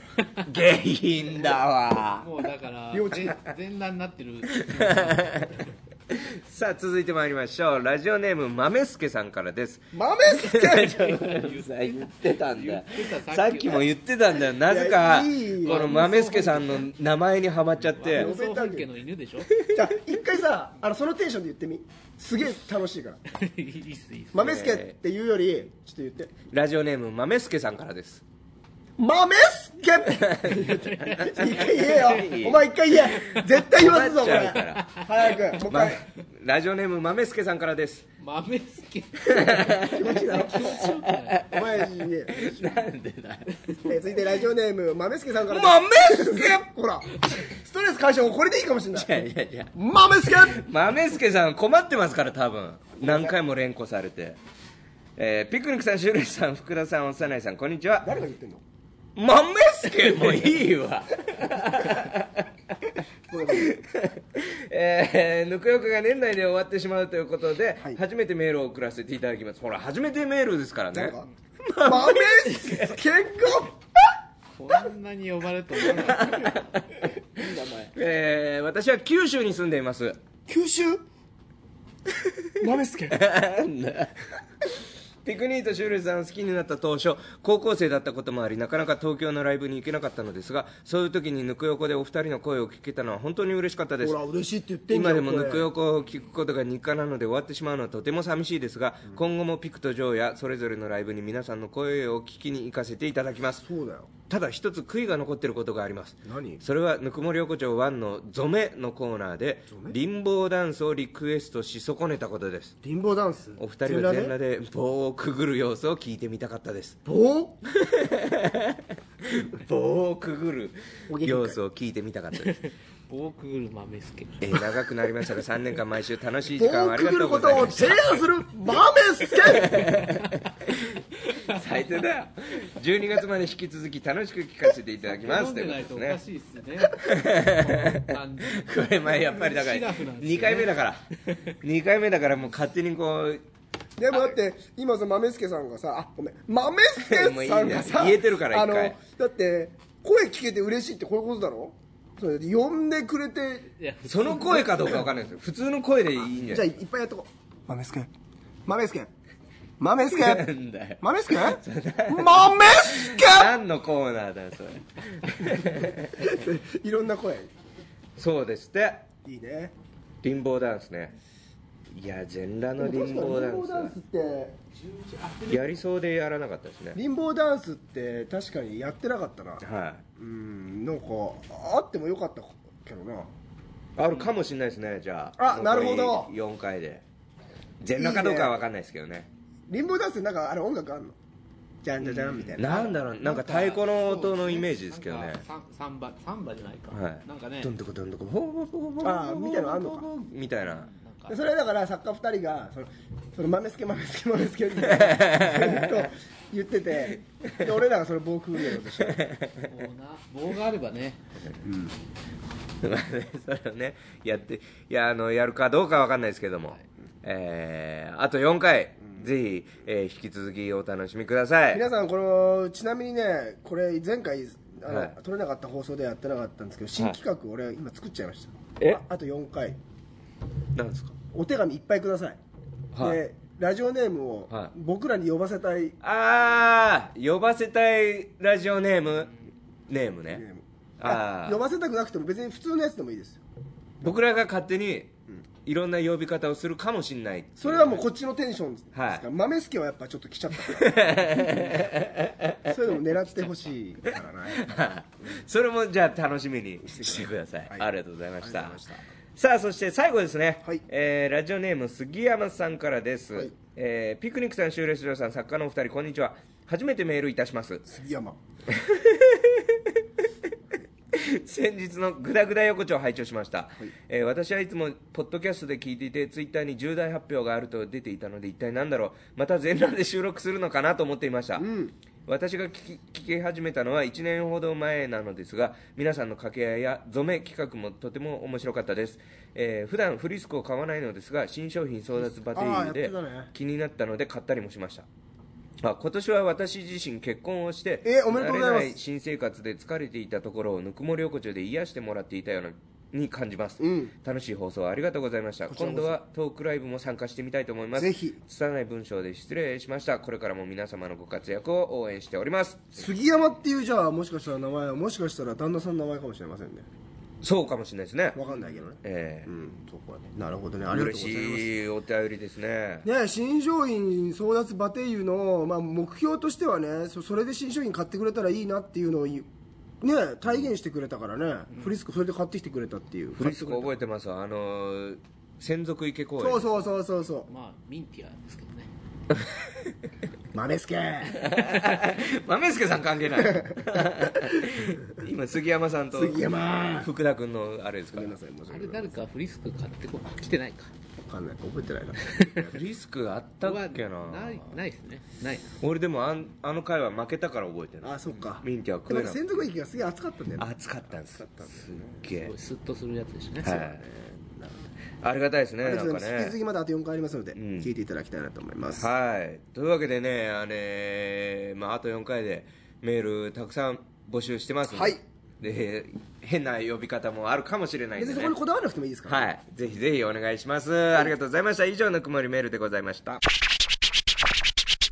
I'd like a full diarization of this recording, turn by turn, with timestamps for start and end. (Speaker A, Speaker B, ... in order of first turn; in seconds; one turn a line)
Speaker A: 0.4-2.3
Speaker B: 2.2-5.6
Speaker C: 2.9-3.4
Speaker A: 4.5-18.3
Speaker C: 9.9-11.4
Speaker B: 11.3-13.9
Speaker C: 14.7-16.1
Speaker B: 15.6-16.9
Speaker B: 17.9-19.6
Speaker C: 18.1-18.9
Speaker C: 19.7-23.2
Speaker B: 23.3-24.5
Speaker C: 24.3-26.3
Speaker A: 24.4-24.9
Speaker A: 26.5-28.2
Speaker C: 29.0-36.0
Speaker A: 30.2-38.1
Speaker B: 30.7-32.4
Speaker B: 34.5-35.0
Speaker B: 38.2-41.7
Speaker A: 39.3-41.6
Speaker C: 39.8-40.8
Speaker C: 41.5-42.5
Speaker A: 42.3-43.6
Speaker C: 43.9-49.1
Speaker A: 45.5-46.6
Speaker A: 48.9-49.7
Speaker C: 49.7-50.6
Speaker A: 50.3-54.4
Speaker C: 53.0-53.4
Speaker A: 55.2-58.1
Speaker C: 58.0-58.6
Speaker A: 59.1-62.9
Speaker C: 63.3-63.8
Speaker A: 63.5-73.0
Speaker C: 70.9-71.3
Speaker C: 71.8-73.8
Speaker B: 74.6-76.9
Speaker A: 76.1-80.2
Speaker C: 77.4-77.9
Speaker C: 80.5-81.0
Speaker C: 82.6-83.2
Speaker A: 83.1-84.3
Speaker A: 85.2-94.2
Speaker C: 94.0-95.7
Speaker A: 94.9-103.7
Speaker C: 103.6-104.1
Speaker A: 104.3-112.8
Speaker C: 106.2-106.6
Speaker C: 109.7-110.0
Speaker C: 112.8-114.3
Speaker A: 113.6-117.0
Speaker C: 117.1-117.6
Speaker A: 117.7-122.6
Speaker C: 121.1-121.6
Speaker B: 122.5-124.8
Speaker A: 124.4-128.2
Speaker C: 126.6-129.9
Speaker A: 129.5-136.2
Speaker B: 129.7-130.4
Speaker B: 131.1-132.1
Speaker B: 135.1-141.6
Speaker A: 136.9-143.4
Speaker C: 144.0-153.7
Speaker A: 147.0-149.0
Speaker B: 153.8-155.1
Speaker A: 154.1-156.7
Speaker C: 156.3-158.1
Speaker C: 158.7-159.1
Speaker C: 159.8-160.5
Speaker A: 160.0-166.3
Speaker C: 161.0-163.6
Speaker C: 166.1-167.5
Speaker A: 168.2-169.1
Speaker C: 169.2-169.7
Speaker A: 170.2-171.2
Speaker A: 171.9-173.9
Speaker C: 172.8-175.6
Speaker A: 175.5-177.0
Speaker C: 176.9-179.6
Speaker A: 179.6-180.1
Speaker C: 180.2-183.3
Speaker A: 184.0-187.0
Speaker C: 185.4-186.3
Speaker A: 187.8-189.3
Speaker C: 187.9-188.6
Speaker C: 189.7-191.2
Speaker C: 191.8-193.0
Speaker B: 192.0-192.7
Speaker A: 192.6-195.4
Speaker B: 193.2-197.7
Speaker A: 196.9-200.9
Speaker C: 199.0-200.1
Speaker B: 200.6-201.4
Speaker C: 201.3-209.3
Speaker A: 204.8-206.1
Speaker A: 209.0-209.7
Speaker B: 209.6-211.2
Speaker C: 211.6-212.0
Speaker A: 212.8-221.8
Speaker C: 221.7-229.8
Speaker A: 224.9-225.1
Speaker A: 230.8-231.2
Speaker C: 231.3-232.4
Speaker A: 232.9-233.2
Speaker C: 233.0-236.0
Speaker A: 236.0-240.4
Speaker C: 240.3-243.4
Speaker A: 241.0-241.6
Speaker A: 244.0-248.1
Speaker C: 247.6-251.7
Speaker A: 248.9-249.2
Speaker A: 250.7-252.7
Speaker C: 252.7-254.7
Speaker A: 254.1-258.8
Speaker C: 256.8-257.9
Speaker C: 258.4-259.0
Speaker A: 259.4-267.9
Speaker C: 267.9-268.4
Speaker A: 268.7-270.0
Speaker A: 271.1-281.7
Speaker C: 281.6-281.9
Speaker A: 282.3-295.1
Speaker C: 292.3-293.5
Speaker A: 295.8-313.1
Speaker C: 298.1-299.0
Speaker C: 303.8-304.1
Speaker C: 305.7-306.1
Speaker C: 308.0-308.4
Speaker C: 313.0-316.9
Speaker A: 317.4-318.4
Speaker C: 318.4-321.7
Speaker B: 318.5-318.8
Speaker A: 319.0-319.5
Speaker A: 320.9-323.1
Speaker C: 323.1-329.5
Speaker C: 330.0-333.9
Speaker B: 331.7-332.0
Speaker A: 333.4-336.7
Speaker C: 336.4-337.5
Speaker B: 337.5-338.9
Speaker C: 340.5-341.4
Speaker A: 341.3-346.4
Speaker C: 343.4-344.9
Speaker C: 346.1-347.1
Speaker A: 347.0-348.4
Speaker C: 348.1-349.2
Speaker B: 348.7-350.9
Speaker C: 351.2-352.8
Speaker A: 352.7-354.8
Speaker B: 353.6-355.8
Speaker A: 355.8-359.6
Speaker C: 358.0-362.2
Speaker A: 360.6-362.5
Speaker B: 362.3-363.8
Speaker A: 363.6-364.0
Speaker C: 363.6-364.8
Speaker A: 365.2-366.6
Speaker C: 365.8-369.1
Speaker A: 367.6-367.9
Speaker A: 369.0-378.5
Speaker C: 374.9-375.2
Speaker C: 378.1-379.5
Speaker A: 379.3-383.4